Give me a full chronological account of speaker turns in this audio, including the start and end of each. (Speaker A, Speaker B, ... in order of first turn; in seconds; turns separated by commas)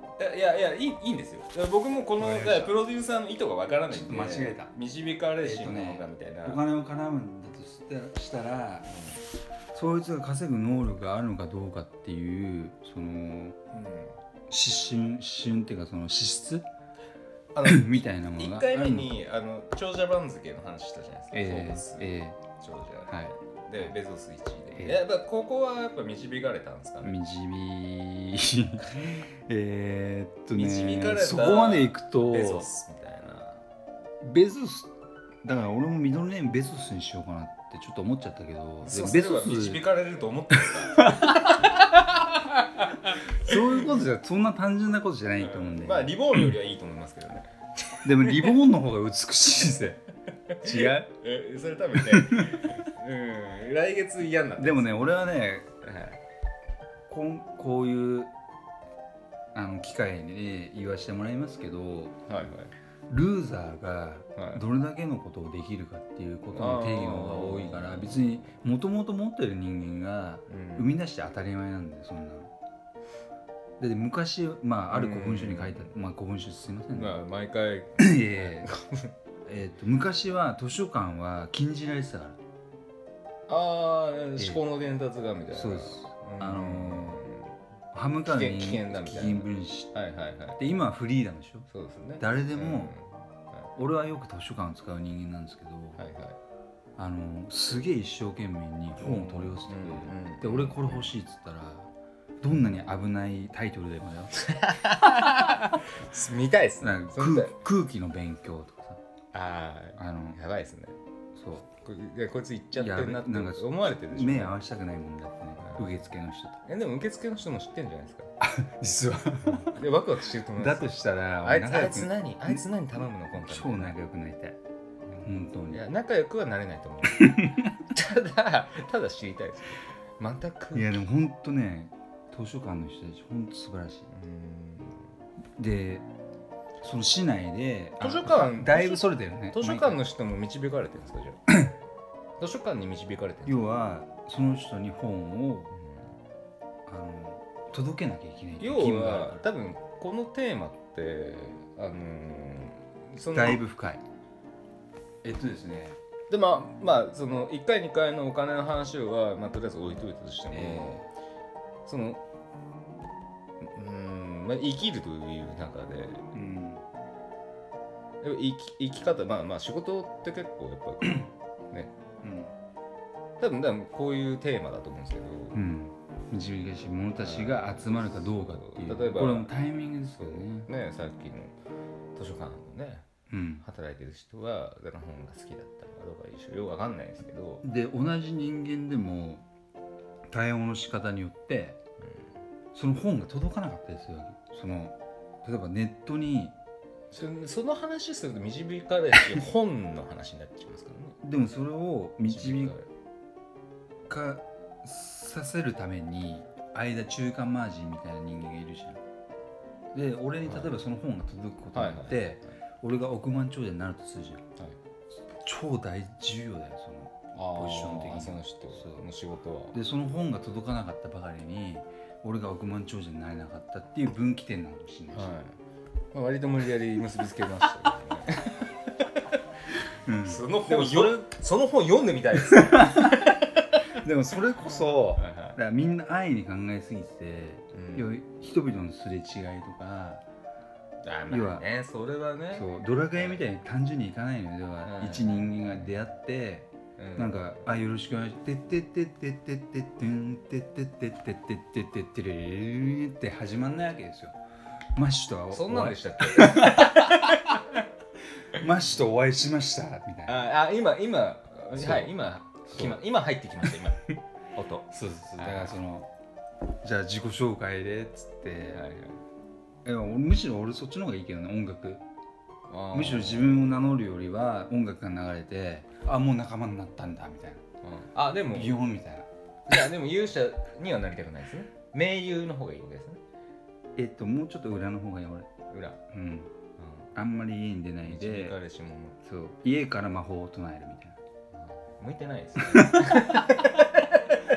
Speaker A: 0.2-6.6, Speaker B: 2.2-2.8, Speaker B: 3.8-4.7, Speaker B: 5.4-8.9, Speaker A: 8.9-9.2, Speaker B: 9.7-13.6, Speaker A: 13.7-14.2, Speaker B: 14.5-16.7, Speaker A: 17.5-27.2, Speaker B: 17.6-19.2, Speaker B: 21.3-22.4, Speaker B: 23.1-23.9, Speaker B: 24.8-25.0, Speaker B: 27.0-32.7, Speaker A: 30.5-33.6, Speaker B: 34.2-34.9, Speaker B: 35.4-39.9, Speaker A: 38.8-44.0, Speaker B: 40.9-41.7, Speaker B: 43.4-46.2, Speaker A: 45.4-48.5, Speaker B: 48.0-50.0, Speaker A: 50.6-55.1, Speaker B: 50.6-51.1, Speaker B: 52.1-52.5, Speaker B: 54.6-55.7, Speaker A: 55.8-56.2, Speaker B: 57.1-58.3, Speaker B: 59.5-62.2, Speaker A: 62.3-62.7, Speaker B: 63.1-72.5, Speaker A: 64.4-64.6, Speaker A: 66.5-68.3, Speaker A: 70.5-70.9, Speaker B: 73.8-77.2, Speaker A: 74.9-75.9, Speaker A: 76.9-79.1, Speaker B: 78.0-78.7, Speaker B: 79.5-82.4, Speaker A: 83.5-87.5, Speaker B: 84.4-84.6, Speaker B: 85.5-87.2, Speaker B: 87.9-89.9, Speaker A: 88.3-90.7, Speaker B: 90.6-91.7, Speaker A: 91.7-93.7, Speaker B: 92.2-92.9, Speaker B: 93.8-96.0, Speaker A: 96.0-96.4, Speaker B: 97.0-101.9, Speaker A: 99.0-101.1, Speaker B: 102.4-104.3, Speaker A: 104.4-107.6, Speaker B: 106.8-109.0, Speaker A: 109.3-111.0, Speaker B: 110.0-110.4, Speaker B: 111.3-111.7, Speaker A: 111.8-114.6, Speaker B: 112.8-116.6, Speaker A: 115.6-115.9, Speaker A: 116.6-118.3, Speaker B: 118.4-119.8, Speaker A: 119.5-124.0, Speaker B: 120.5-122.6, Speaker B: 123.4-124.6, Speaker B: 125.2-125.8, Speaker A: 125.7-131.0, Speaker B: 127.2-127.7, Speaker B: 130.7-134.1, Speaker A: 134.1-135.0, Speaker B: 135.6-136.1, Speaker B: 136.8-140.0, Speaker A: 138.0-141.4, Speaker A: 142.4-143.6, Speaker B: 143.5-145.7, Speaker A: 145.8-146.1, Speaker B: 146.9-149.5, Speaker A: 148.6-153.6, Speaker B: 153.3-154.0, Speaker B: 155.2-156.0, Speaker A: 156.3-161.0, Speaker B: 160.5-161.1, Speaker A: 161.9-162.2, Speaker A: 163.6-166.3, Speaker B: 166.3-166.8, Speaker A: 168.2-171.9, Speaker B: 172.2-172.5, Speaker A: 173.4-175.6, Speaker B: 175.5-180.7, Speaker A: 177.2-179.5, Speaker A: 180.2-181.6, Speaker A: 182.2-183.1, Speaker B: 183.3-183.7, Speaker A: 183.6-187.6, Speaker B: 187.6-189.4, Speaker B: 190.3-191.8, Speaker B: 192.7-196.6, Speaker A: 197.1-201.2, Speaker B: 201.2-202.8, Speaker A: 202.3-202.9, Speaker B: 204.1-209.0, Speaker B: 209.9-214.4, Speaker A: 210.4-210.7, Speaker A: 211.7-212.3, Speaker B: 215.3-219.1, Speaker A: 217.3-219.8, Speaker B: 219.7-225.3, Speaker A: 225.1-225.6, Speaker A: 226.1-228.7, Speaker B: 230.1-231.2, Speaker A: 230.2-233.3, Speaker B: 232.5-233.3, Speaker B: 234.0-240.2, Speaker A: 235.2-235.6, Speaker A: 237.7-238.1, Speaker A: 241.0-243.5, Speaker B: 241.3-241.7, Speaker B: 242.5-254.4, Speaker A: 244.8-246.0, Speaker A: 247.0-247.6, Speaker B: 255.0-257.6, Speaker A: 255.5-257.3, Speaker B: 258.5-260.4, Speaker A: 260.3-265.8, Speaker B: 261.8-263.0, Speaker B: 264.9-266.1, Speaker B: 266.8-268.9, Speaker A: 268.7-269.2, Speaker B: 269.9-272.0, Speaker A: 272.7-273.5, Speaker B: 272.9-277.6, Speaker A: 277.8-278.8, Speaker B: 278.5-279.3, Speaker A: 279.7-283.2, Speaker B: 284.0-285.5, Speaker A: 285.7-286.0, Speaker B: 286.1-286.5, Speaker A: 286.8-287.1, Speaker B: 287.1-288.6, Speaker A: 288.0-289.2, Speaker B: 289.2-291.2, Speaker A: 291.5-293.7, Speaker B: 292.7-293.6